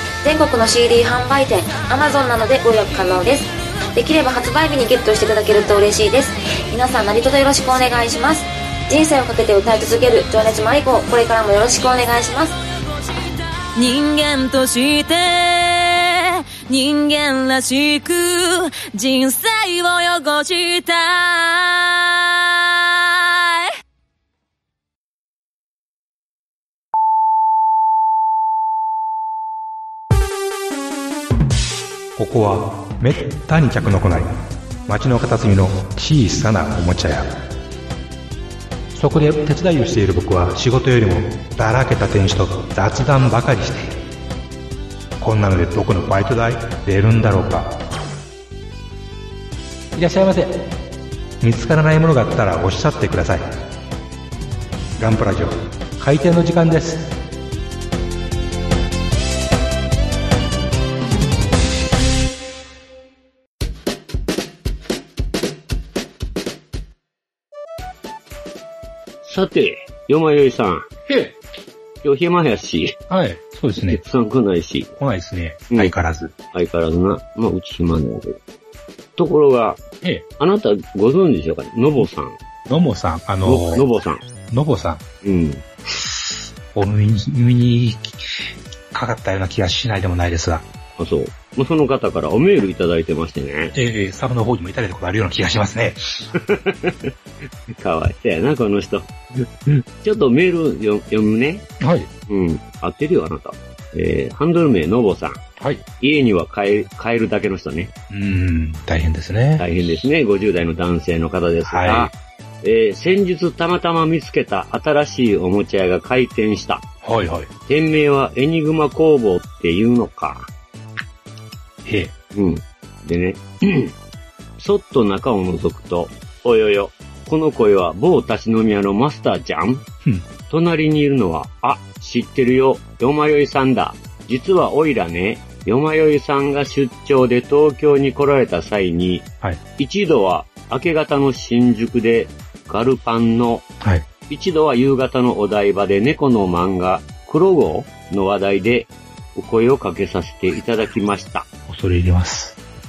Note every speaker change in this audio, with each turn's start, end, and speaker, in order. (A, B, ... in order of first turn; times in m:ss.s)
0:00.2-0:12.5 A
0:13.7-0:23.7 B
0:32.2-0:37.4 C
0:38.9-0:43.9 C
0:45.2-0:47.8 C
0:49.9-0:50.6 C
0:51.4-0:53.6 C
0:55.0-0:57.1 C
1:09.2-1:10.9 D
1:11.1-1:11.3 C
1:12.0-1:13.0 D
1:13.1-1:14.0 C
1:13.8-1:14.9 D
1:15.0-1:16.3 C
1:16.5-1:18.4 D
1:19.2-1:19.8 D
1:20.4-1:22.4 D
1:22.6-1:23.8 C
1:23.4-1:24.2 D
1:24.5-1:25.0 C
1:25.2-1:25.7 D
1:26.7-1:28.4 C
1:28.9-1:30.6 C
1:31.0-1:33.7 D
1:33.7-1:36.3 C
1:36.3-1:37.1 D
1:37.8-1:41.6 D
1:41.8-1:42.1 C
1:42.3-1:45.4 D
1:45.6-1:45.8 C
1:46.0-1:47.9 D
1:48.1-1:49.7 C
1:49.6-1:56.8 D
1:51.7-1:52.1 C
1:57.0-1:57.5 C
1:57.7-2:00.5 D
2:01.8-2:02.1 C
2:02.3-2:03.9 D
2:04.6-2:09.8 D
2:10.5-2:19.2 D
2:19.8-2:23.6 D
2:24.3-2:31.4 D
2:31.7-2:32.6 C